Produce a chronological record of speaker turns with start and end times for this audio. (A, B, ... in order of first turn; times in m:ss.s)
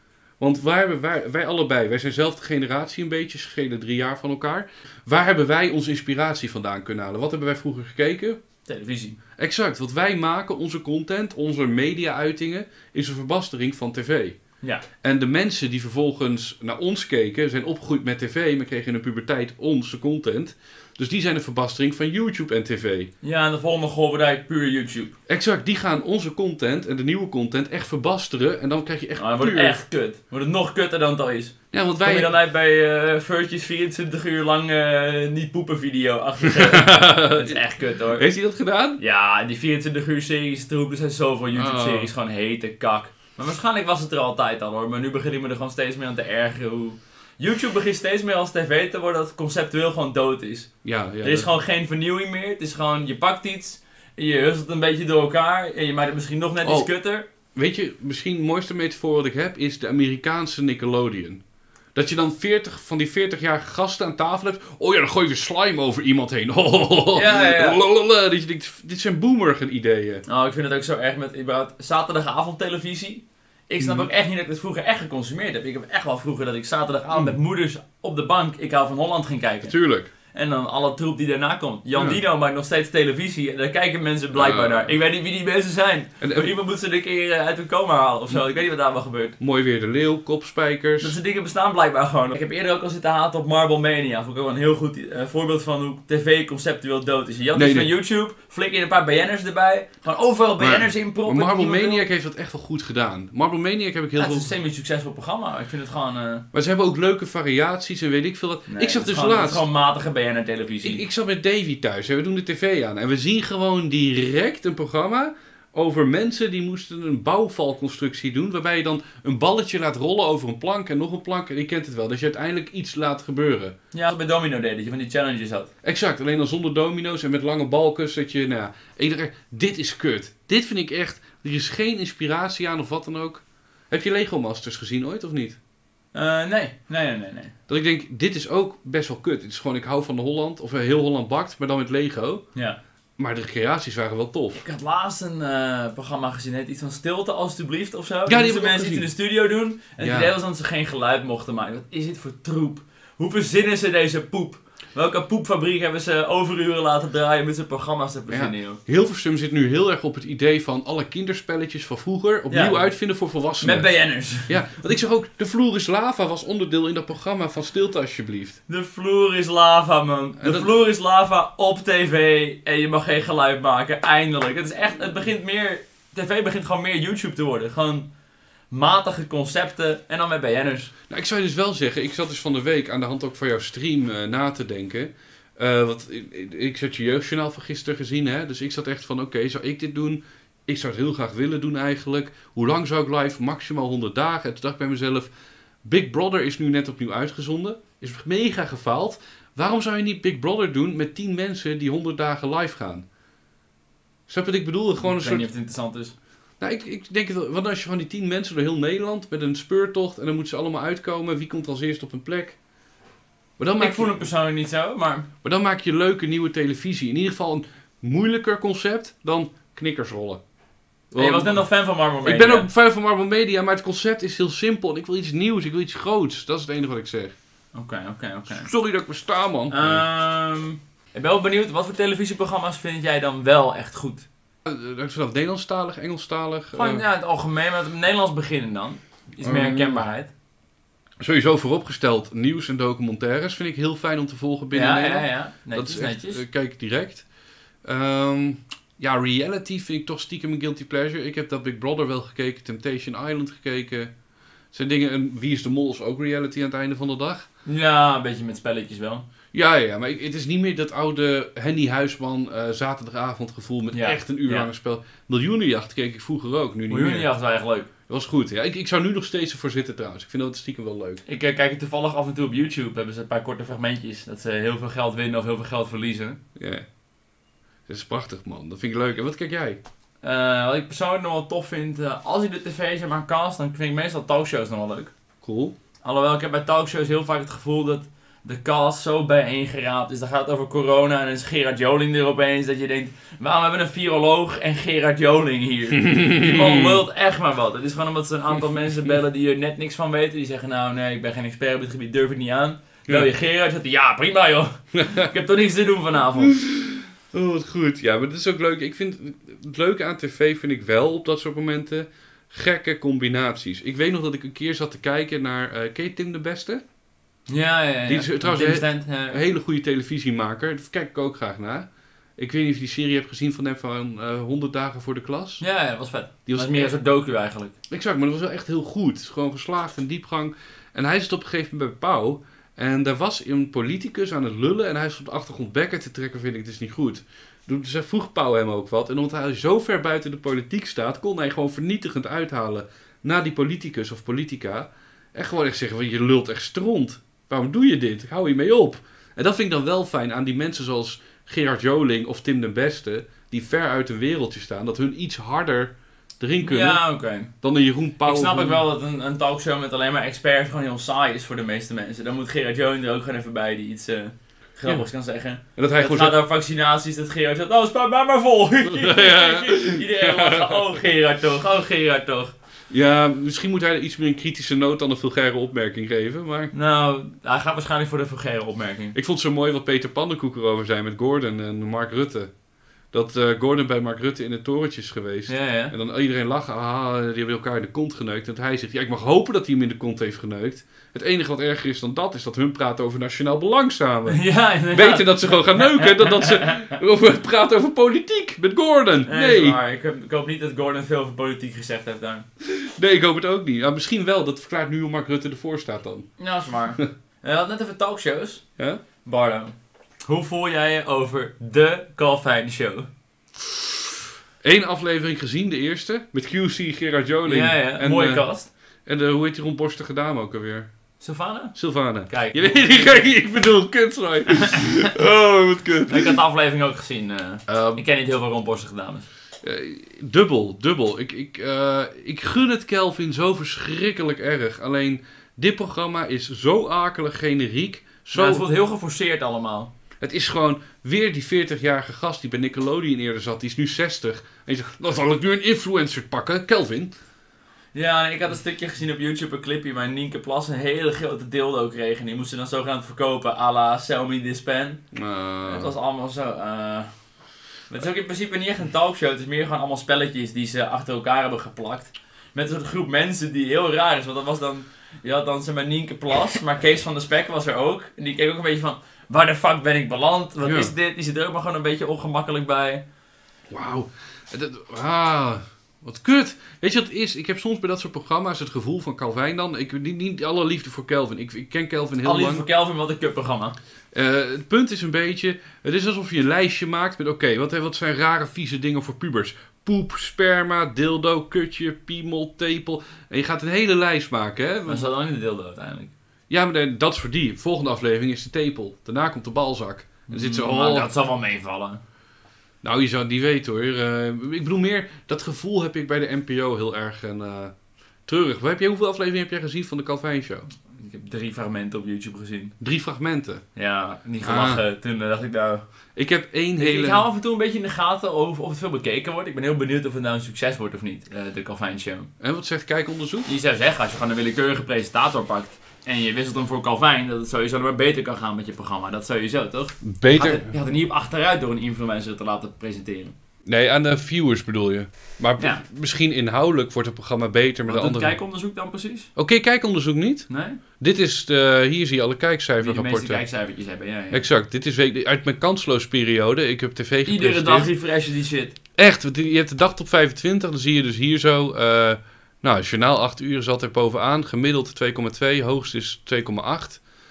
0:00.4-0:08.4 A
0:08.7-0:09.2 B
0:09.4-0:14.4 A
0:15.0-0:23.1 A
0:23.2-0:25.2 B
0:25.3-0:29.8 A
0:29.2-0:38.2 B
0:31.7-0:32.3 A
0:36.5-0:37.6 A
0:38.1-0:39.0 A
0:39.0-0:50.7 B
0:41.5-0:42.1 A
0:50.8-0:51.5 A
0:51.2-0:57.2 B
0:56.6-0:56.9 A
0:57.5-1:01.4 A
1:01.9-1:10.2 A
1:07.1-1:07.8 B
1:10.2-1:19.7 B
1:13.8-1:14.1 A
1:19.6-1:20.1 A
1:20.3-1:29.4 B
1:21.9-1:22.2 A
1:24.3-1:24.9 A
1:26.2-1:26.5 A
1:29.4-1:31.2 A
1:31.0-1:42.0 B
1:37.6-1:37.9 A
1:40.6-1:44.5 A
1:44.2-1:46.4 B
1:46.5-1:49.6 A
1:48.7-1:51.0 B
1:50.8-2:03.7 A
2:03.9-2:05.7 B
2:05.8-2:15.6 A
2:16.1-2:17.5 B
2:17.7-2:22.4 A
2:22.5-2:22.8 B
2:23.2-2:24.6 A
2:24.5-2:38.8 B
2:28.2-2:29.1 A
2:30.0-2:30.3 A
2:38.3-2:43.9 A
2:42.5-2:42.8 B
2:43.6-2:44.6 B
2:44.4-2:48.6 A
2:48.7-2:58.1 B
2:50.4-2:50.7 A
2:58.7-3:00.9 B
3:01.1-3:15.3 A
3:15.8-3:23.0 A
3:24.3-3:25.5 A
3:25.0-3:26.1 B
3:26.6-3:32.6 A
3:33.6-3:34.2 A
3:33.8-3:35.3 B
3:35.4-3:40.4 A
3:41.1-3:41.6 A
3:41.2-3:42.7 B
3:42.2-3:47.3 A
3:47.7-3:48.7 B
3:48.5-3:50.0 A
3:49.7-3:54.2 B
3:54.6-3:57.0 A
3:56.7-4:00.3 B
3:59.4-4:00.0 A
4:01.2-4:07.2 A
4:04.7-4:06.4 B
4:07.8-4:14.1 A
4:14.7-4:17.5 A
4:17.6-4:19.2 B
4:19.5-4:27.3 A
4:23.9-4:24.7 B
4:26.9-4:27.9 B
4:28.1-4:31.2 A
4:31.2-4:36.4 B
4:36.6-4:36.8 A
4:37.9-4:39.8 A
4:40.2-4:45.1 B
4:45.4-4:45.7 A
4:46.0-5:06.6 B
4:55.9-4:57.0 A
5:04.9-5:05.3 A
5:06.4-5:16.8 A
5:17.5-5:19.4 B
5:18.1-5:25.6 A
5:25.6-5:27.7 B
5:26.4-5:26.9 A
5:27.9-5:57.0 A
5:56.6-5:57.5 B
5:57.6-5:58.8 A
5:58.2-6:12.5 B
6:05.8-6:06.4 A
6:08.8-6:11.0 A
6:12.9-6:16.7 A
6:16.7-6:19.1 B
6:19.1-6:22.5 A
6:23.1-6:34.4 A
6:25.5-6:25.9 B
6:34.3-6:37.0 B
6:34.9-6:39.8 A
6:39.3-6:42.4 B
6:42.6-6:46.3 A
6:46.4-6:48.6 B
6:49.2-6:49.7 B
6:50.3-6:53.1 B
6:54.6-6:58.5 A
6:57.4-6:58.7 B
6:59.0-7:00.9 A
7:01.2-7:01.7 B
7:01.7-7:06.4 A
7:02.3-7:03.3 B
7:04.5-7:05.1 B
7:06.1-7:09.2 B
7:07.7-7:08.0 A
7:09.6-7:18.6 A
7:18.3-7:19.9 B
7:20.2-7:27.1 A
7:27.9-7:35.0 B
7:35.1-7:35.9 A
7:35.6-7:37.1 B
7:37.9-7:53.0 B
7:50.6-7:50.9 A
7:53.7-8:02.6 A
8:02.2-8:03.8 B
8:04.1-8:15.1 A
8:14.9-8:16.1 B
8:16.5-8:21.1 A
8:20.3-8:22.0 B
8:22.8-8:27.7 A
8:28.3-8:30.7 A
8:30.9-8:32.7 B
8:32.8-8:33.6 A
8:33.8-8:35.8 B
8:34.4-8:34.8 A
8:36.2-8:37.2 A
8:36.8-8:42.3 B
8:42.4-8:43.5 A
8:43.4-8:53.3 B
8:50.0-8:50.7 A
8:53.7-8:58.4 A
8:57.8-8:59.3 B
8:59.4-9:00.5 A
9:00.5-9:00.8 B
9:01.0-9:03.4 A
9:02.8-9:04.4 B
9:04.3-9:07.9 A
9:07.2-9:08.8 B
9:09.0-9:17.0 A